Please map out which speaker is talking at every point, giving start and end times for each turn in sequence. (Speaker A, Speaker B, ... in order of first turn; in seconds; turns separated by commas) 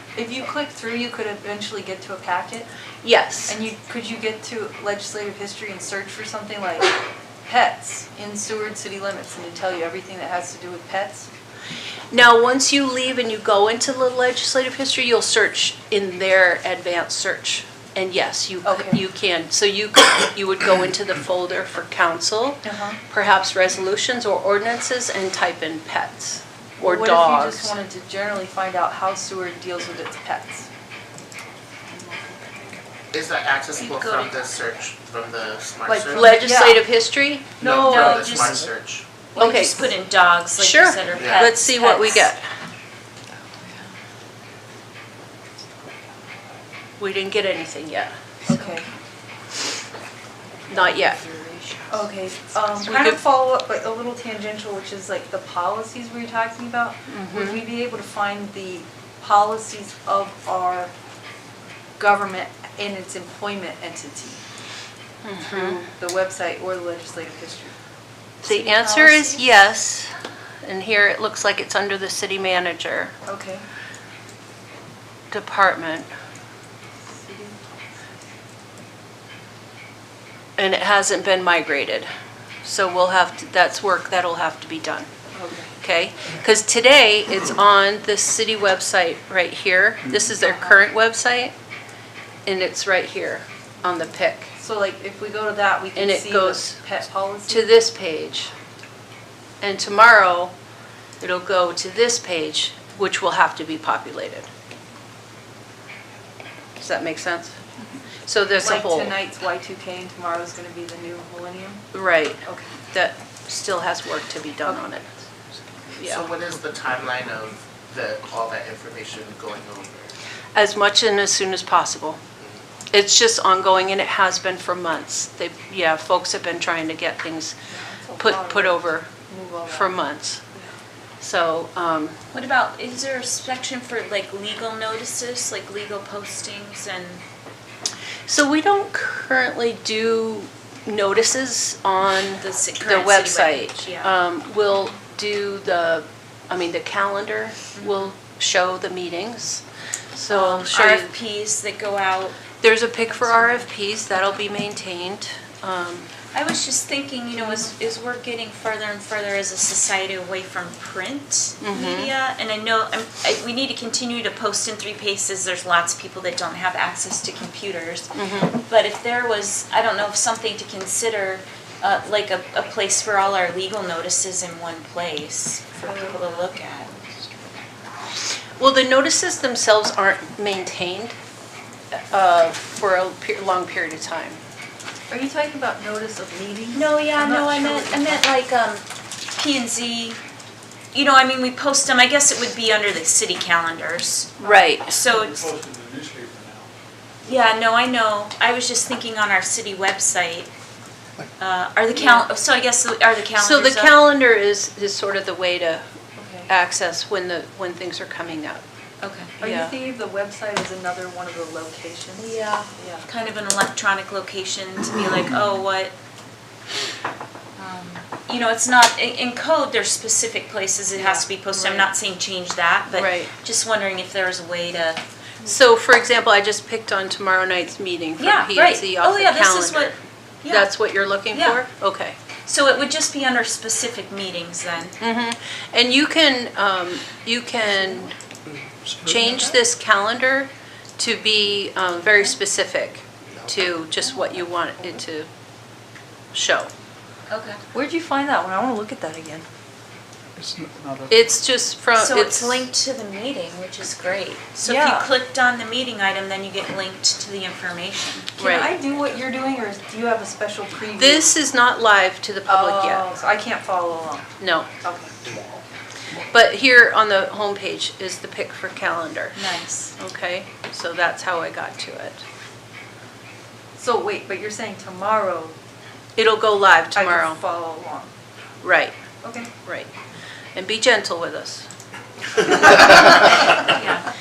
Speaker A: 0.2-2.7, Speaker B: 3.0-3.5, Speaker A: 3.5-11.3, Speaker B: 12.1-27.7, Speaker A: 18.6-19.0, Speaker A: 22.6-23.0, Speaker A: 26.8-30.7, Speaker A: 31.9-32.8, Speaker C: 33.1-36.4, Speaker D: 33.7-34.5, Speaker A: 35.9-36.9, Speaker B: 36.1-37.6, Speaker A: 37.6-38.5, Speaker C: 37.6-39.1, Speaker D: 37.7-38.7, Speaker D: 39.4-42.3, Speaker B: 39.4-39.9, Speaker B: 40.6-42.4, Speaker C: 41.1-41.5, Speaker D: 43.6-43.9, Speaker B: 47.0-48.1, Speaker A: 48.5-48.9, Speaker D: 48.5-48.8, Speaker B: 50.7-51.2, Speaker D: 51.2-51.9, Speaker A: 51.9-60.9, Speaker B: 52.9-53.1, Speaker B: 57.1-57.6, Speaker A: 62.0-64.4, Speaker B: 65.2-65.8, Speaker A: 65.4-67.8, Speaker D: 68.4-69.5, Speaker B: 68.4-70.1, Speaker B: 70.6-73.1, Speaker A: 73.3-73.7, Speaker B: 75.3-76.1, Speaker A: 77.2-77.6, Speaker B: 80.6-82.1, Speaker B: 82.6-85.1, Speaker A: 85.3-85.7, Speaker B: 85.8-91.5, Speaker B: 92.5-94.5, Speaker A: 94.6-97.7, Speaker B: 96.0-96.8, Speaker B: 97.5-98.5, Speaker B: 99.6-100.5, Speaker B: 101.2-104.5, Speaker B: 106.8-107.6, Speaker B: 108.3-109.2, Speaker A: 108.6-111.8, Speaker B: 111.9-112.4, Speaker A: 112.4-112.7, Speaker B: 112.9-115.0, Speaker B: 115.9-116.3, Speaker C: 116.0-120.1, Speaker B: 120.5-122.2, Speaker B: 122.9-127.5, Speaker A: 127.7-130.0, Speaker B: 128.2-129.1, Speaker B: 129.7-130.4, Speaker B: 131.2-132.2, Speaker D: 132.3-137.2, Speaker B: 138.3-149.6, Speaker D: 142.4-144.1, Speaker B: 150.2-151.1, Speaker D: 150.3-152.4, Speaker B: 152.6-156.1, Speaker D: 156.3-177.0, Speaker B: 161.6-162.1, Speaker B: 168.2-168.6, Speaker A: 175.8-176.5, Speaker B: 178.6-181.2, Speaker B: 181.9-184.4, Speaker A: 185.1-188.2, Speaker D: 186.7-190.2, Speaker D: 190.9-195.4, Speaker B: 194.4-194.9, Speaker E: 195.0-196.7, Speaker D: 197.2-200.5, Speaker D: 201.4-204.0, Speaker B: 203.3-205.8, Speaker A: 206.2-206.5, Speaker B: 206.5-208.6, Speaker D: 209.0-209.3, Speaker A: 209.4-213.1, Speaker B: 209.4-209.8, Speaker D: 212.2-215.9, Speaker D: 217.6-225.0, Speaker A: 221.0-221.9, Speaker B: 222.9-223.3, Speaker B: 225.4-230.0, Speaker D: 228.2-230.8, Speaker B: 230.5-232.2, Speaker D: 231.3-231.6, Speaker D: 232.5-235.0, Speaker B: 235.0-238.1, Speaker E: 238.8-239.1, Speaker B: 239.0-245.3, Speaker B: 246.3-246.7, Speaker D: 247.3-247.6, Speaker A: 247.7-249.5, Speaker E: 250.4-251.1, Speaker B: 251.1-252.7, Speaker D: 251.9-258.4, Speaker A: 254.6-255.1, Speaker A: 258.4-261.3, Speaker B: 258.4-258.7, Speaker B: 261.0-263.1, Speaker A: 262.4-264.3, Speaker B: 264.4-264.7, Speaker A: 264.8-265.4, Speaker B: 266.2-272.2, Speaker D: 269.4-269.9, Speaker A: 273.8-275.5, Speaker B: 276.2-277.4, Speaker A: 276.9-278.1, Speaker B: 278.6-278.9, Speaker A: 279.2-279.5, Speaker B: 279.6-279.9, Speaker B: 280.6-281.7, Speaker B: 282.4-283.7, Speaker D: 283.6-284.1